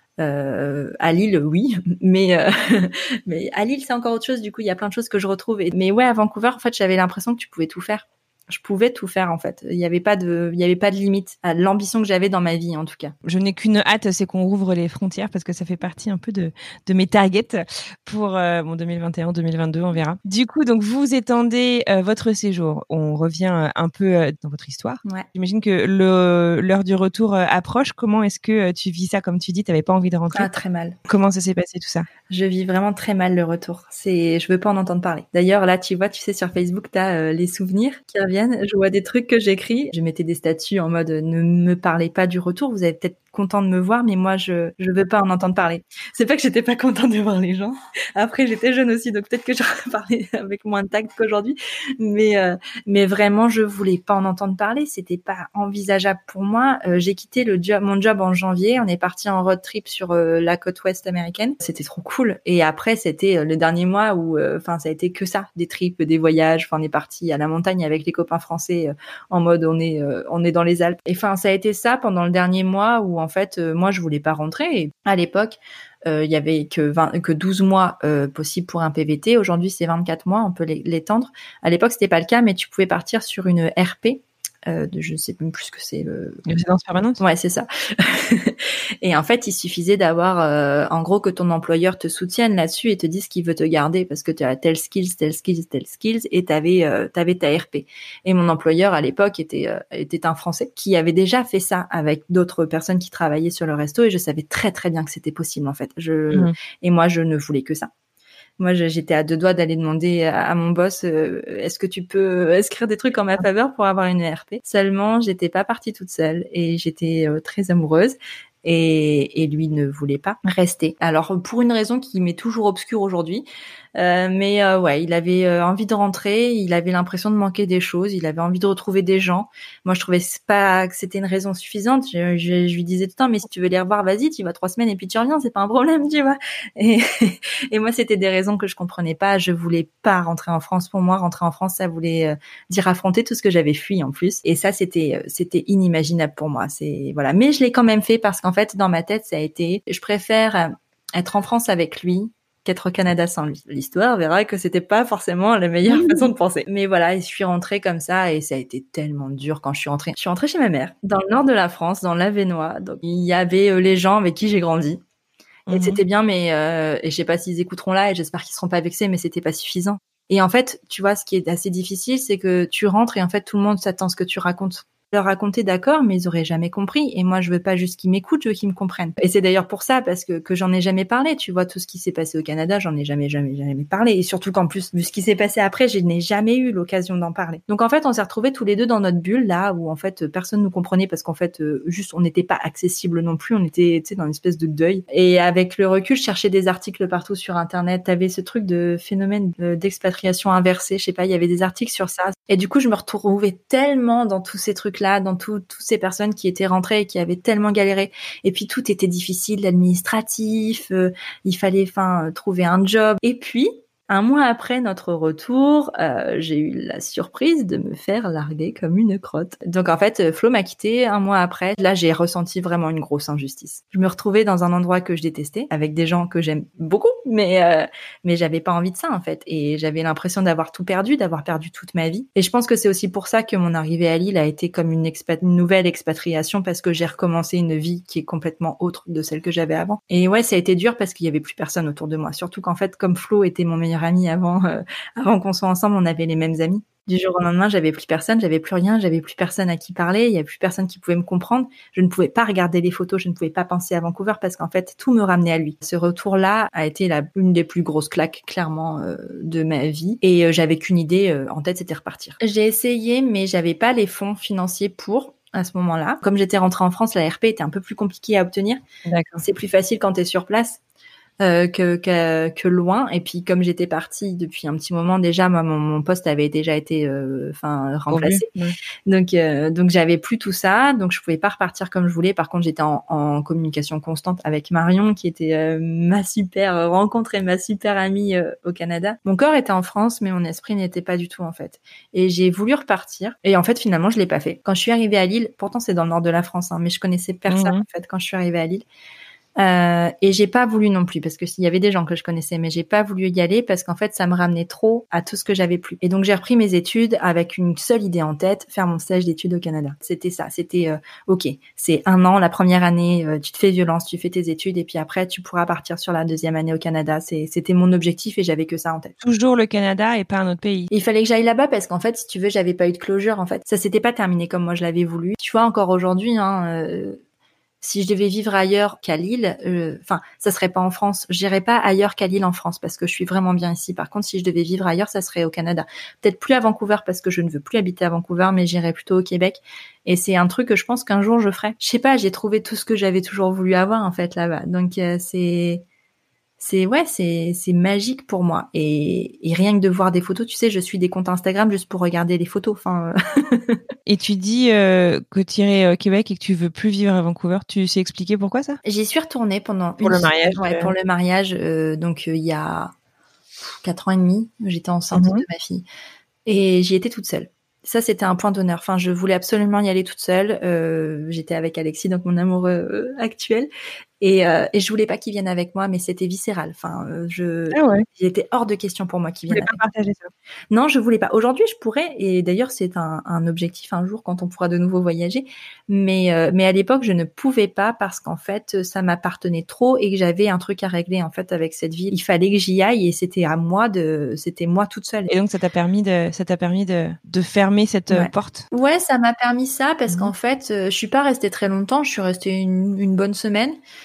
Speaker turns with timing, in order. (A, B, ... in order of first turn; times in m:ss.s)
0:00.2-0:13.1 A
0:13.2-0:30.5 B
0:30.3-0:31.0 A
0:31.0-0:32.1 B
0:32.3-1:26.4 A
1:26.4-1:27.2 B
1:27.2-1:47.9 A
1:48.6-2:45.0 A
2:35.9-2:36.3 B
2:45.7-2:46.0 B
2:45.7-4:28.8 A
4:29.0-4:29.4 B
4:29.4-4:30.8 A
4:31.4-4:38.5 A
4:38.1-4:38.8 B
4:39.0-4:58.8 A
4:57.5-4:57.8 B
4:59.6-5:19.2 A
5:19.2-5:20.9 B
5:20.9-5:27.2 A
5:27.8-5:45.8 A
5:46.6-5:53.8 A
5:54.0-5:58.8 B
5:58.8-6:02.9 A
6:00.0-6:00.9 B
6:03.8-6:05.8 A
6:05.1-6:05.4 B
6:06.4-6:13.7 A
6:14.2-6:19.8 A
6:17.7-6:18.0 B
6:19.5-6:20.3 B
6:20.7-6:35.3 A
6:35.3-6:38.6 B
6:38.1-6:43.8 A